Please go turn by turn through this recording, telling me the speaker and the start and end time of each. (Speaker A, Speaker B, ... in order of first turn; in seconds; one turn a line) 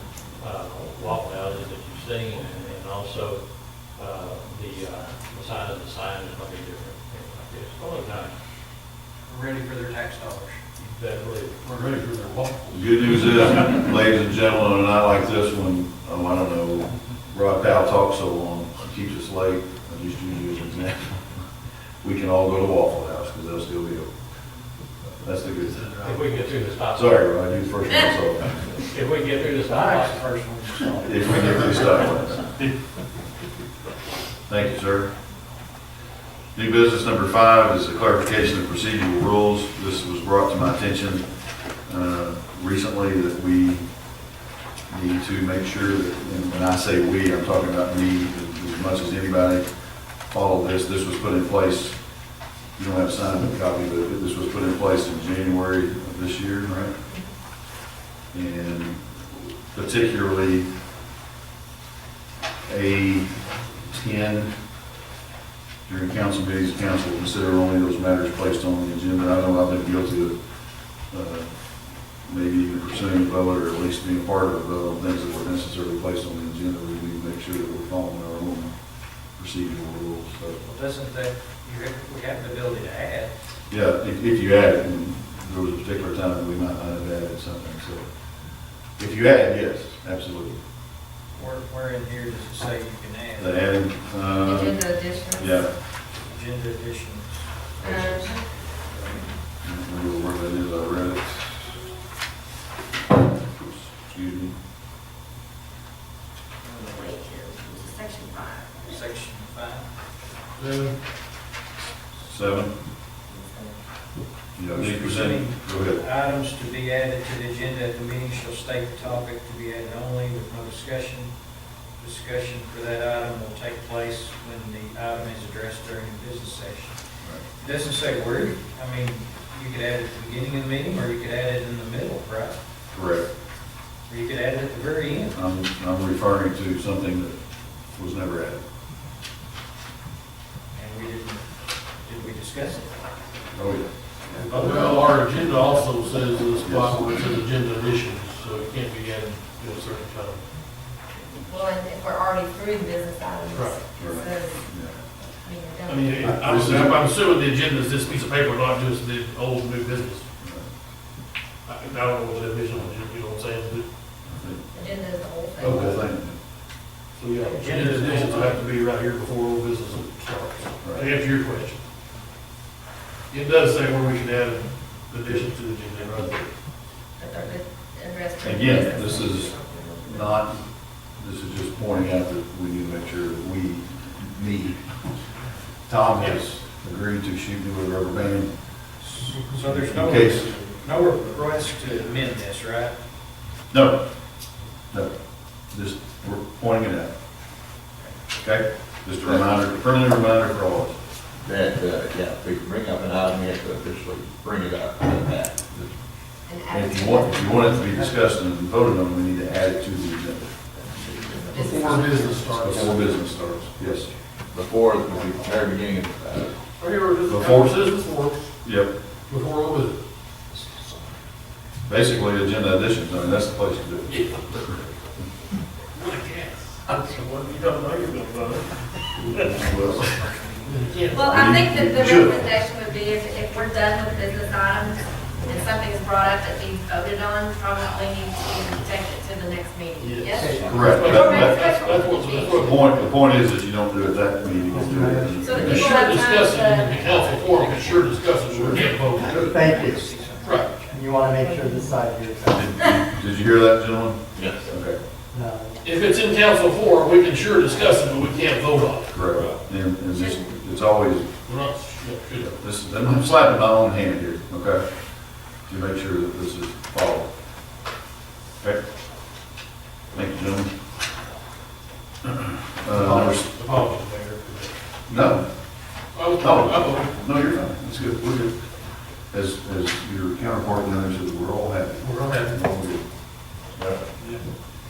Speaker A: 0.4-3.4
Speaker A: 3.9-8.3
Speaker B: 9.2-10.6
Speaker A: 10.8-11.6
Speaker C: 11.6-12.8
Speaker D: 12.7-21.2
Speaker D: 22.0-24.1
Speaker D: 25.2-26.1
Speaker A: 26.0-27.3
Speaker D: 26.9-28.5
Speaker A: 28.8-30.2
Speaker B: 29.6-31.9
Speaker D: 31.0-32.5
Speaker D: 34.5-35.1
Speaker D: 36.5-41.2
Speaker D: 41.9-43.9
Speaker D: 44.9-49.7
Speaker D: 50.3-52.0
Speaker D: 52.8-56.9
Speaker D: 58.3-60.7
Speaker D: 62.6-63.3
Speaker D: 63.9-64.5
Speaker D: 65.8-70.4
Speaker D: 71.1-71.5
Speaker D: 72.2-78.7
Speaker D: 79.3-80.6
Speaker B: 80.6-83.3
Speaker D: 83.7-88.0
Speaker D: 89.0-90.6
Speaker B: 91.3-93.5
Speaker D: 93.4-94.8
Speaker E: 94.4-95.6
Speaker D: 95.4-95.7
Speaker B: 96.2-99.3
Speaker E: 97.8-98.5
Speaker D: 99.6-101.8
Speaker D: 103.1-104.5
Speaker E: 106.6-109.0
Speaker B: 108.8-109.8
Speaker C: 110.5-110.9
Speaker D: 112.2-112.7
Speaker E: 113.3-113.7
Speaker D: 114.5-116.0
Speaker B: 114.7-121.3
Speaker B: 122.0-127.0
Speaker B: 127.6-132.6
Speaker D: 132.9-133.2
Speaker B: 134.1-135.3
Speaker D: 135.3-137.4
Speaker D: 137.9-138.6
Speaker B: 140.7-141.4
Speaker B: 142.0-142.9
Speaker D: 143.5-144.5
Speaker B: 144.4-145.1
Speaker C: 144.5-150.4
Speaker D: 146.6-147.1
Speaker E: 151.4-154.7
Speaker C: 153.5-153.8
Speaker D: 154.0-154.9
Speaker E: 155.3-156.3
Speaker C: 155.8-160.2
Speaker D: 156.2-157.0
Speaker C: 161.7-163.9
Speaker D: 164.3-164.6
Speaker E: 164.7-165.9
Speaker D: 165.6-166.4
Speaker C: 165.6-166.0
Speaker C: 167.2-171.8
Speaker B: 167.4-168.6
Speaker D: 170.8-171.1
Speaker C: 173.3-176.5
Speaker E: 177.2-180.4
Speaker D: 178.4-184.8
Speaker D: 185.9-188.6
Speaker B: 189.0-192.9
Speaker D: 189.7-190.6
Speaker D: 193.7-194.0
Speaker D: 195.7-197.1
Speaker D: 198.4-201.0
Speaker F: 201.4-205.9
Speaker E: 206.4-208.0
Speaker D: 206.7-210.8
Speaker E: 211.4-212.5
Speaker C: 211.5-213.2
Speaker D: 212.6-214.1
Speaker F: 214.5-216.6
Speaker C: 216.8-218.5
Speaker D: 217.3-217.8
Speaker D: 218.6-218.9
Speaker C: 219.3-220.0
Speaker D: 221.9-224.7
Speaker C: 224.1-224.6
Speaker C: 225.9-230.1
Speaker D: 229.2-230.1
Speaker B: 230.2-231.1
Speaker C: 230.7-231.2
Speaker E: 231.1-242.9
Speaker D: 231.2-232.5
Speaker C: 240.0-243.1
Speaker G: 240.3-241.0
Speaker D: 240.6-241.7
Speaker D: 242.6-245.9
Speaker G: 244.7-245.5
Speaker E: 245.3-247.7
Speaker C: 245.5-249.6
Speaker B: 247.3-251.1
Speaker G: 249.4-250.1
Speaker C: 250.4-250.8
Speaker G: 250.9-252.8
Speaker E: 251.4-251.9
Speaker D: 252.5-255.0
Speaker F: 254.3-254.7
Speaker G: 255.3-255.8
Speaker C: 255.8-259.6
Speaker D: 259.1-261.3
Speaker E: 260.1-260.5
Speaker C: 261.4-262.6
Speaker D: 262.6-264.8
Speaker D: 265.6-267.3
Speaker D: 270.1-270.7
Speaker D: 272.8-273.5
Speaker C: 272.9-275.3
Speaker D: 275.1-275.4
Speaker C: 276.1-277.1
Speaker D: 276.4-278.5
Speaker D: 279.3-283.0
Speaker C: 282.0-282.6